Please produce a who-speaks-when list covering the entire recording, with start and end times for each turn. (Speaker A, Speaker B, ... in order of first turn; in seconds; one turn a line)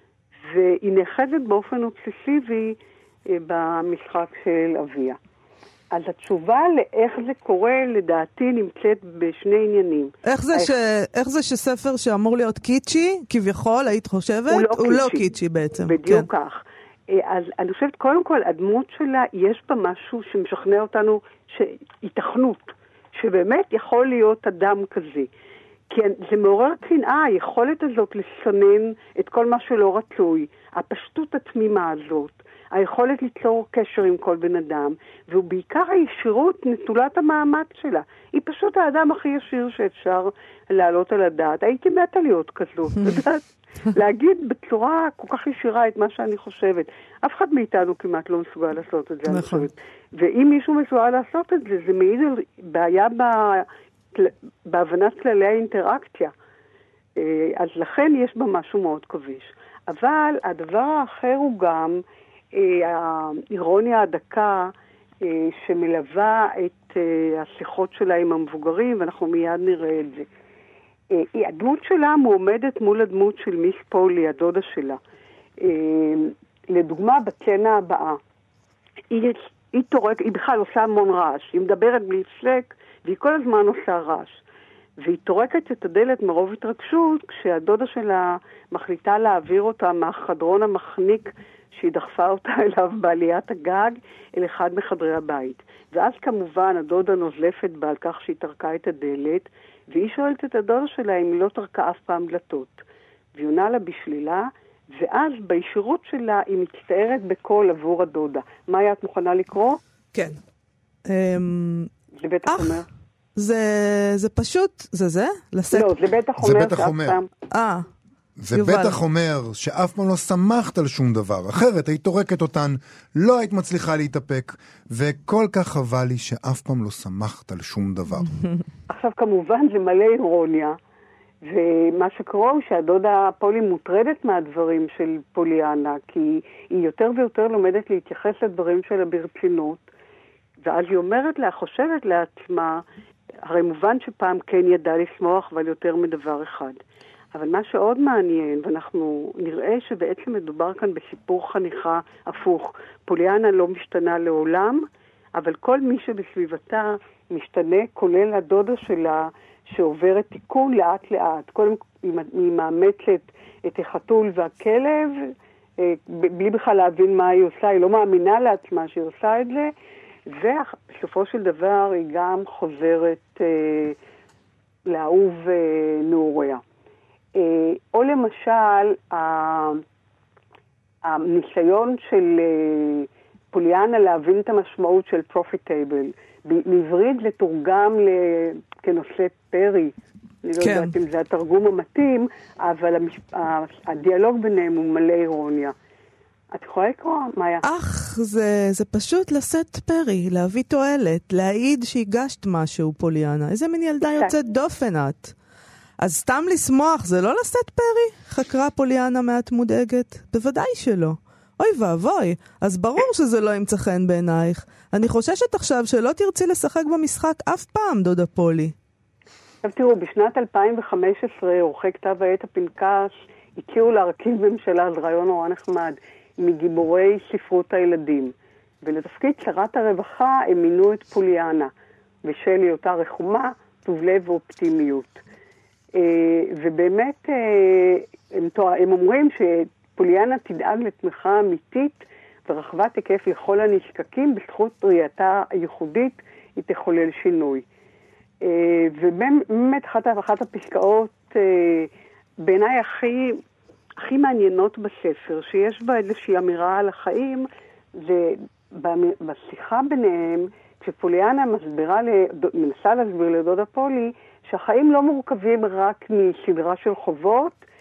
Speaker A: 0.5-5.2
Speaker A: 5.9-10.7
Speaker B: 10.2-16.3
Speaker A: 14.5-15.2
Speaker A: 15.8-25.3
Speaker A: 25.9-56.3
Speaker B: 49.3-49.6
Speaker A: 57.2-62.0
Speaker A: 62.5-70.3
Speaker A: 71.1-75.0
Speaker A: 75.6-78.2
Speaker A: 79.1-84.4
Speaker A: 85.0-102.8
Speaker A: 103.3-109.8
Speaker B: 111.0-111.9
Speaker A: 112.2-112.9
Speaker B: 112.5-112.8
Speaker B: 113.4-115.9
Speaker A: 115.7-117.3
Speaker C: 116.4-117.2
Speaker B: 117.5-117.8
Speaker C: 118.4-128.3
Speaker B: 118.5-118.9
Speaker A: 128.9-130.8
Speaker A: 131.4-139.8
Speaker A: 140.6-142.8
Speaker A: 143.5-146.8
Speaker A: 147.3-169.7
Speaker A: 170.3-173.9
Speaker A: 174.9-176.6
Speaker A: 177.3-179.8
Speaker A: 181.0-189.9
Speaker A: 190.4-195.7
Speaker B: 190.6-190.9
Speaker A: 196.5-197.6
Speaker B: 197.6-205.3
Speaker A: 204.1-204.3
Speaker B: 206.0-218.7
Speaker A: 219.6-231.7
Speaker A: 232.2-235.2
Speaker A: 235.9-247.6
Speaker A: 248.4-253.4
Speaker A: 254.0-267.6